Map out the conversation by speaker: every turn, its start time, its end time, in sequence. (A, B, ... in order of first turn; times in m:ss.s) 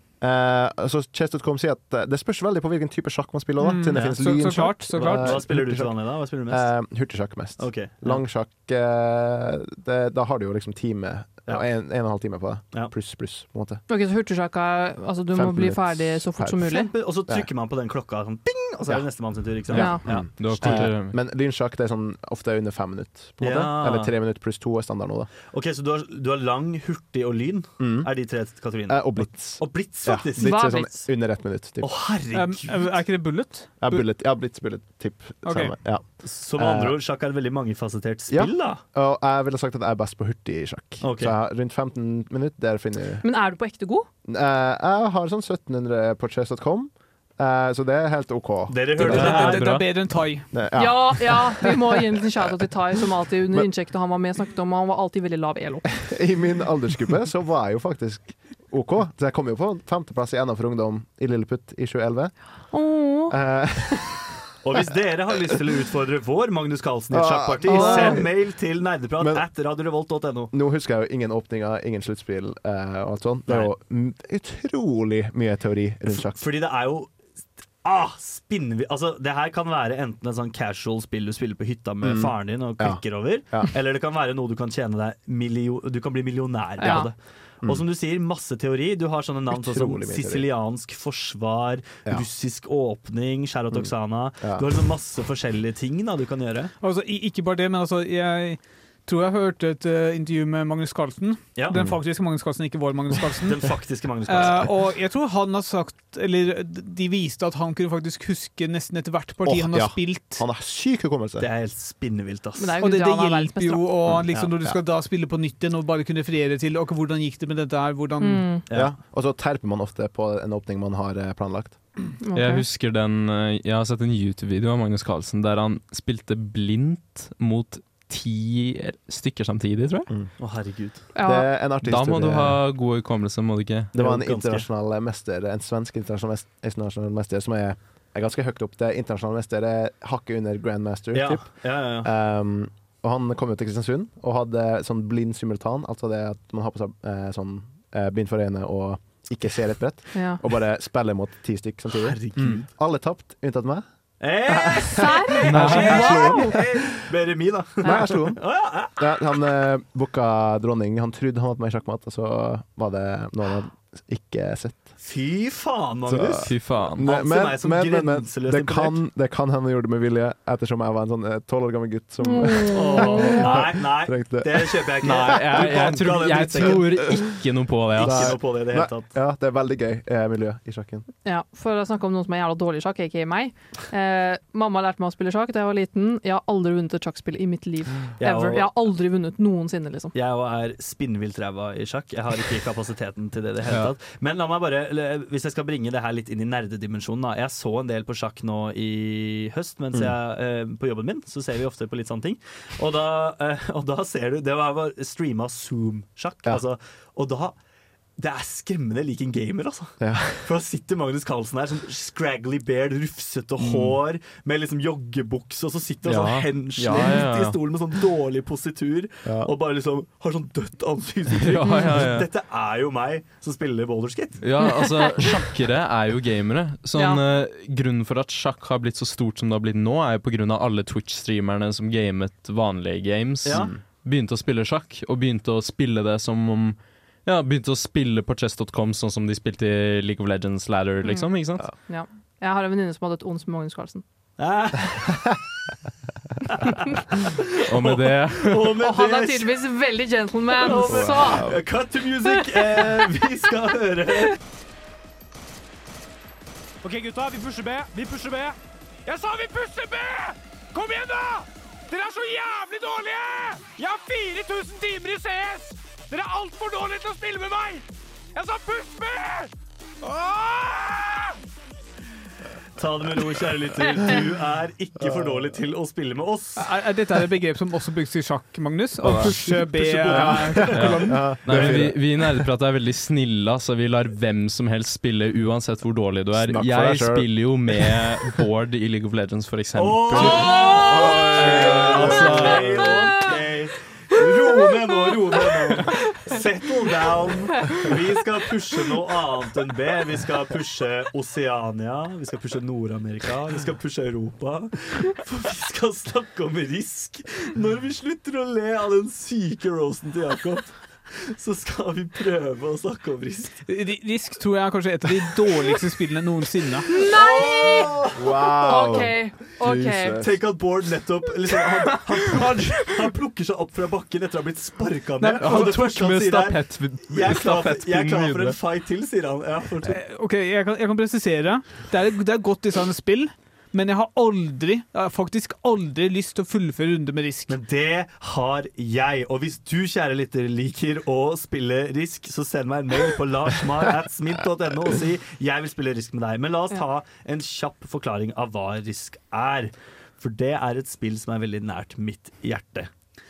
0:00.2-0:13.8 A
0:03.6-0:05.5 B
0:03.9-0:08.2 C
0:11.5-0:11.7 C
0:13.9-0:16.9 D
0:15.3-0:16.7 A
0:16.6-0:20.8 C
0:18.9-0:25.3 A
0:19.8-0:20.4 D
0:19.8-0:21.2 E
0:23.4-0:24.1 C
0:25.5-0:33.0 C
0:27.8-0:32.1 A
0:30.4-0:30.9 D
0:32.3-0:34.1 B
0:33.8-0:37.0 A
0:35.4-0:35.8 B
0:36.0-0:38.8 C
0:38.3-0:43.2 A
0:41.0-0:41.3 C
0:43.2-0:44.1 D
0:44.2-0:52.2 A
0:48.7-0:49.8 C
0:49.0-0:50.8 B
0:49.1-0:49.8 E
0:50.8-0:55.9 D
0:56.1-1:04.3 A
1:02.7-1:03.8 D
1:04.6-1:10.5 C
1:07.1-1:09.4 A
1:07.7-1:08.3 D
1:10.5-1:16.4 A
1:16.1-1:17.2 C
1:17.8-1:36.7 C
1:22.0-1:23.7 A
1:26.8-1:27.1 D
1:29.5-1:30.5 A
1:33.7-1:34.7 A
1:36.8-1:50.5 B
1:41.7-1:42.0 A
1:43.5-1:44.7 C
1:49.4-1:51.5 A
1:51.4-1:52.8 C
1:52.6-1:53.9 D
1:52.8-1:58.6 B
1:54.1-1:54.8 A
1:58.2-1:58.6 D
1:58.7-1:59.0 C
1:58.7-2:02.2 A
2:02.2-2:02.6 D
2:02.3-2:10.1 E
2:10.4-2:11.1 C
2:11.1-2:11.5 D
2:11.1-2:12.7 A
2:11.8-2:13.9 E
2:13.9-2:36.9 A
2:14.0-2:14.7 C
2:21.1-2:22.1 C
2:30.1-2:30.4 D
2:31.9-2:32.7 C
2:34.2-2:39.1 C
2:34.7-2:36.6 D
2:35.5-2:36.4 E
2:37.8-2:45.0 A
2:37.8-2:38.1 D
2:45.0-2:49.0 C
2:46.1-2:55.8 A
2:46.4-2:47.1 E
2:52.3-2:53.5 D
2:52.7-2:57.4 C
2:55.0-2:58.4 E
2:56.5-3:01.1 A
2:57.9-2:59.1 C
3:01.2-3:10.1 D
3:08.2-3:08.7 C
3:10.1-3:27.6 C
3:28.2-3:44.8 C
3:30.0-3:30.5 A
3:36.0-3:37.6 E
3:39.2-3:39.5 A
3:41.4-3:42.3 E
3:44.4-4:01.7 E
3:47.0-3:47.2 D
3:53.4-3:53.7 C
3:53.5-3:53.8 A
4:01.0-4:04.0 D
4:04.4-4:05.4 C
4:07.7-4:08.7 E
4:07.8-4:09.6 C
4:08.8-4:11.7 D
4:10.5-4:14.4 C
4:10.9-4:11.7 A
4:12.2-4:12.9 D
4:16.8-4:31.3 F
4:32.8-4:36.7 C
4:35.0-4:35.6 A
4:36.6-4:41.4 B
4:39.0-4:39.6 A
4:39.0-4:39.3 E
4:39.4-4:40.8 C
4:40.1-4:42.5 A
4:40.7-4:53.1 E
4:46.3-4:48.0 A
4:49.8-5:13.6 C
4:50.2-4:51.2 D
4:50.7-4:52.9 A
4:52.9-4:53.2 D
5:13.7-5:16.9 B
5:16.9-5:18.0 D
5:16.9-5:18.2 C
5:18.2-5:20.6 A
5:18.6-5:20.2 D
5:18.8-5:19.0 C
5:20.2-5:30.0 C
5:25.2-5:25.8 B
5:25.4-5:28.6 E
5:29.9-5:37.6 B
5:37.5-5:52.9 C